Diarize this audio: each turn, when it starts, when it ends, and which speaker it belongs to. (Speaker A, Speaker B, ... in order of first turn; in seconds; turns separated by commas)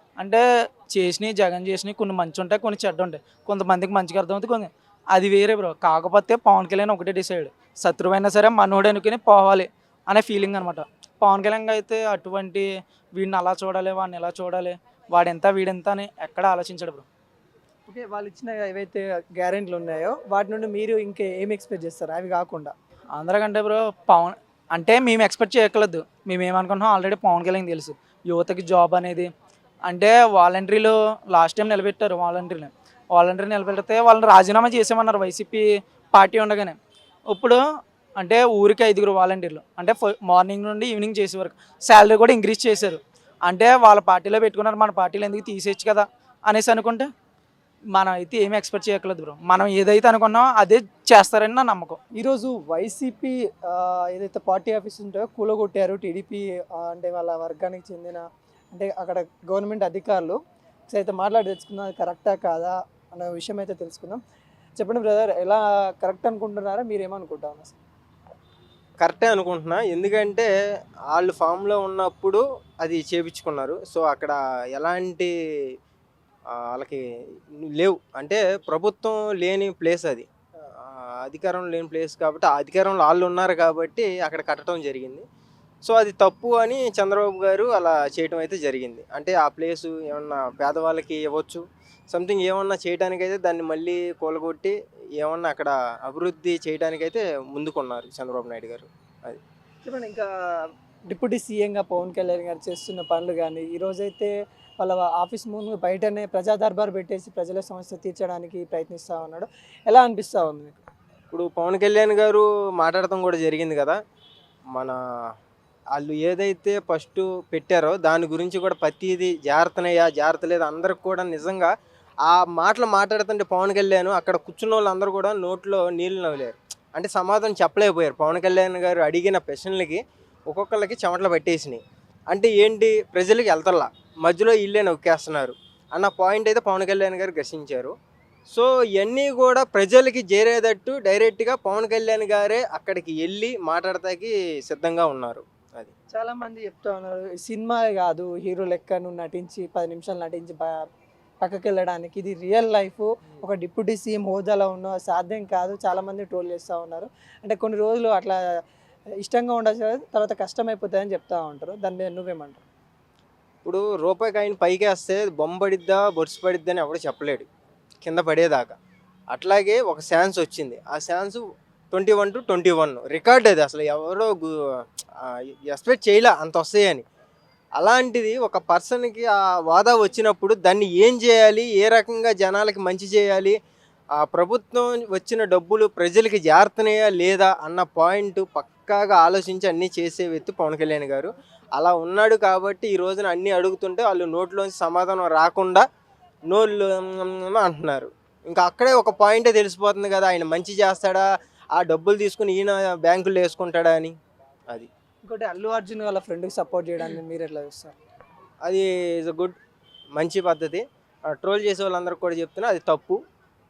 Speaker A: 0.2-17.1, Speaker B: 17.9-22.7, Speaker A: 23.1-29.3, Speaker A: 29.9-36.8, Speaker A: 37.3-37.6, Speaker A: 38.2-47.1, Speaker A: 47.9-52.0, Speaker B: 52.1-60.4, Speaker B: 60.9-64.2, Speaker B: 64.8-67.8, Speaker C: 69.0-70.5, Speaker C: 71.1-75.3, Speaker C: 76.5-77.0, Speaker C: 77.6-80.3, Speaker C: 80.8-85.2, Speaker C: 85.8-99.4, Speaker B: 99.8-100.3, Speaker B: 101.1-110.7, Speaker C: 111.3-114.0, Speaker C: 114.7-115.0, Speaker C: 115.9-121.7, Speaker C: 122.2-137.9, Speaker C: 138.5-145.9, Speaker B: 146.1-150.8, Speaker B: 151.4-158.4, Speaker B: 159.2-162.6, Speaker C: 163.6-167.4, Speaker C: 168.0-168.7, Speaker C: 169.3-174.5, Speaker C: 175.2-177.0, Speaker C: 177.8-183.5, Speaker C: 184.2-195.8, Speaker C: 196.5-204.2, Speaker B: 205.2-207.9, Speaker C: 208.6-209.6, Speaker C: 210.1-213.2